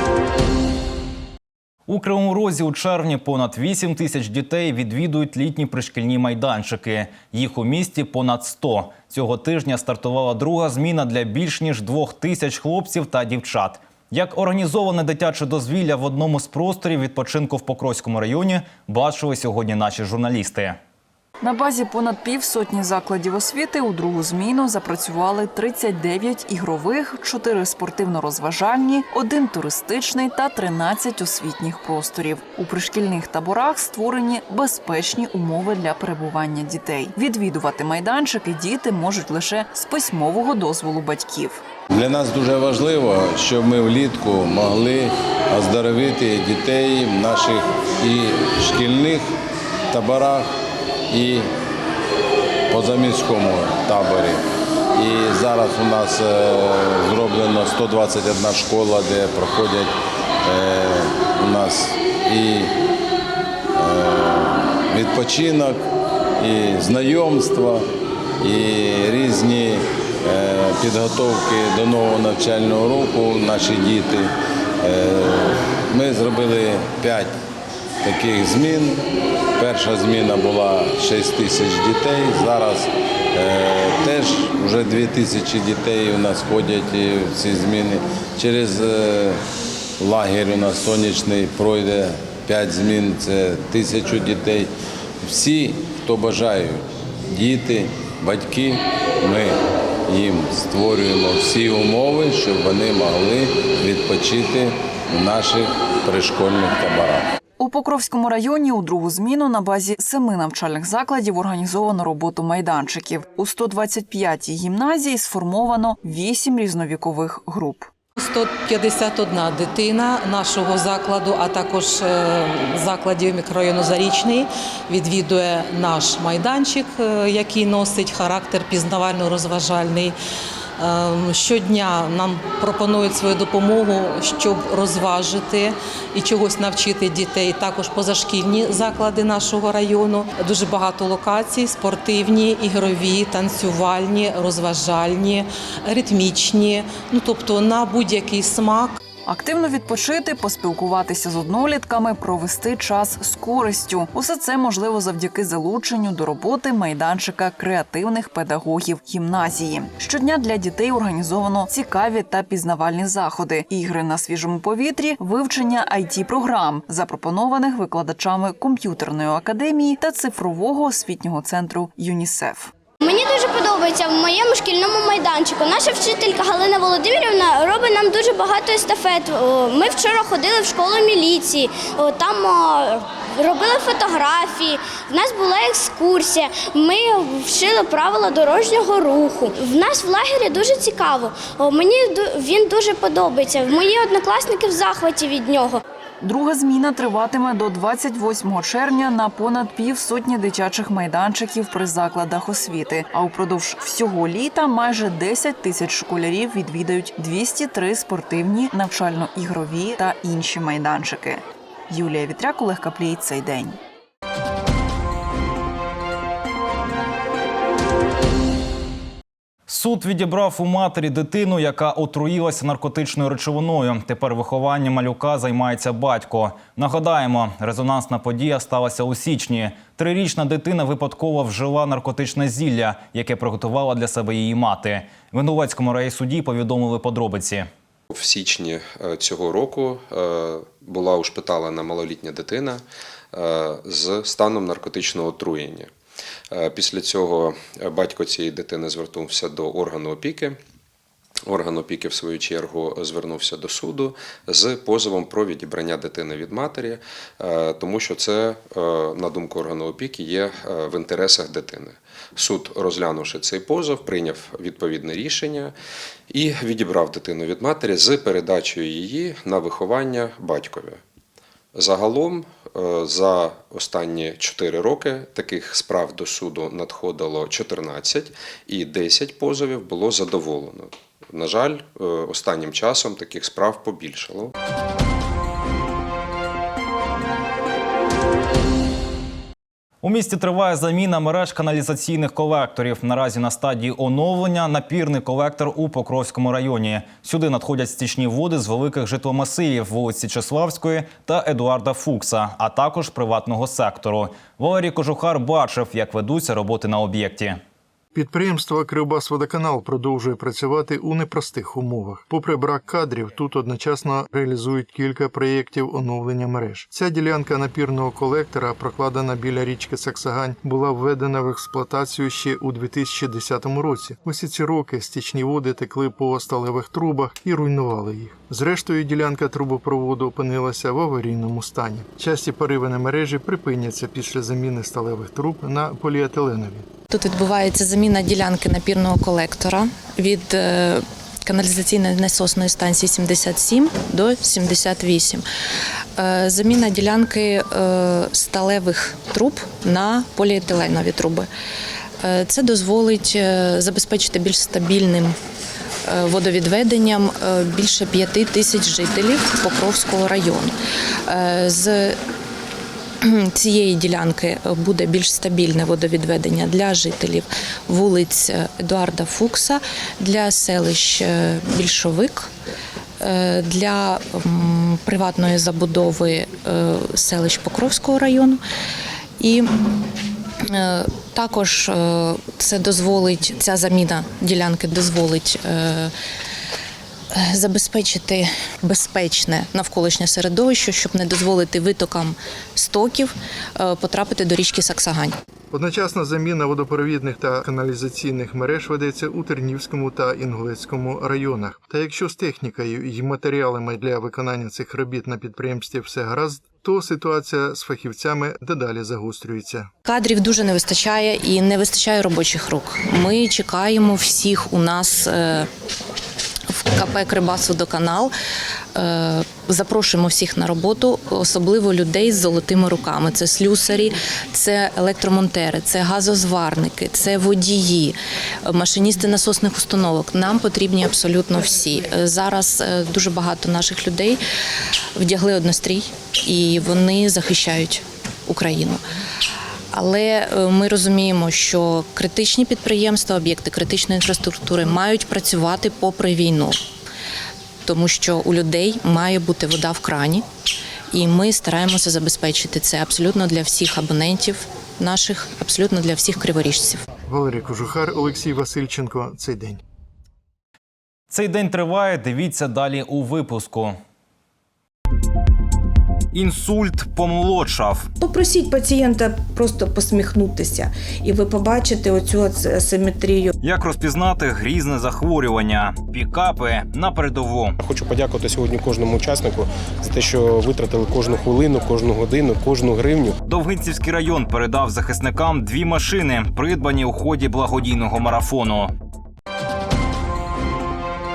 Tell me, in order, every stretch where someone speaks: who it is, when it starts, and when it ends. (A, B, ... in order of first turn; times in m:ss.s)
0:01.9-0:20.8 A
0:21.4-0:41.6 B
0:41.9-0:49.3 C
0:49.9-0:50.5 C
0:51.1-0:51.5 C
0:52.7-0:54.4 C
0:54.9-1:02.7 C
1:03.8-1:07.9 C
1:08.4-1:17.4 C
1:18.0-1:19.0 C
1:19.6-1:29.4 C
1:30.0-1:34.7 C
1:35.2-1:47.3 C
1:47.6-1:57.9 B
1:58.2-2:10.1 D
2:10.8-2:29.0 D
2:29.2-2:52.7 B
2:53.0-3:15.8 E
3:16.2-3:33.8 B
3:39.7-3:57.7 A
3:58.1-4:05.9 F
4:06.5-4:10.6 F
4:11.4-4:25.7 F
4:26.3-4:31.0 F
4:31.7-4:44.5 F
4:50.0-5:07.6 A
5:08.1-5:36.8 G
5:37.1-5:45.4 H
5:46.2-5:51.5 H
5:52.2-5:55.3 H
5:56.1-6:00.7 H
6:01.3-6:02.1 H
6:03.2-6:12.5 H
6:13.2-6:18.6 H
6:19.4-6:19.7 H
6:20.6-6:26.1 H
6:27.3-6:35.4 H
6:35.7-6:49.9 G
6:50.0-6:55.7 H
6:56.7-6:58.3 H
6:58.9-7:08.1 H
7:08.6-7:14.4 H
7:15.2-7:19.0 H
7:19.9-7:26.8 H
7:27.8-7:30.4 H
7:31.1-7:37.0 H
7:37.3-7:39.8 G
7:41.3-7:44.0 A
7:46.3-7:48.1 A
7:48.2-7:53.5 I
7:53.6-7:57.8 A
7:57.8-8:03.4 J
8:03.4-8:08.9 A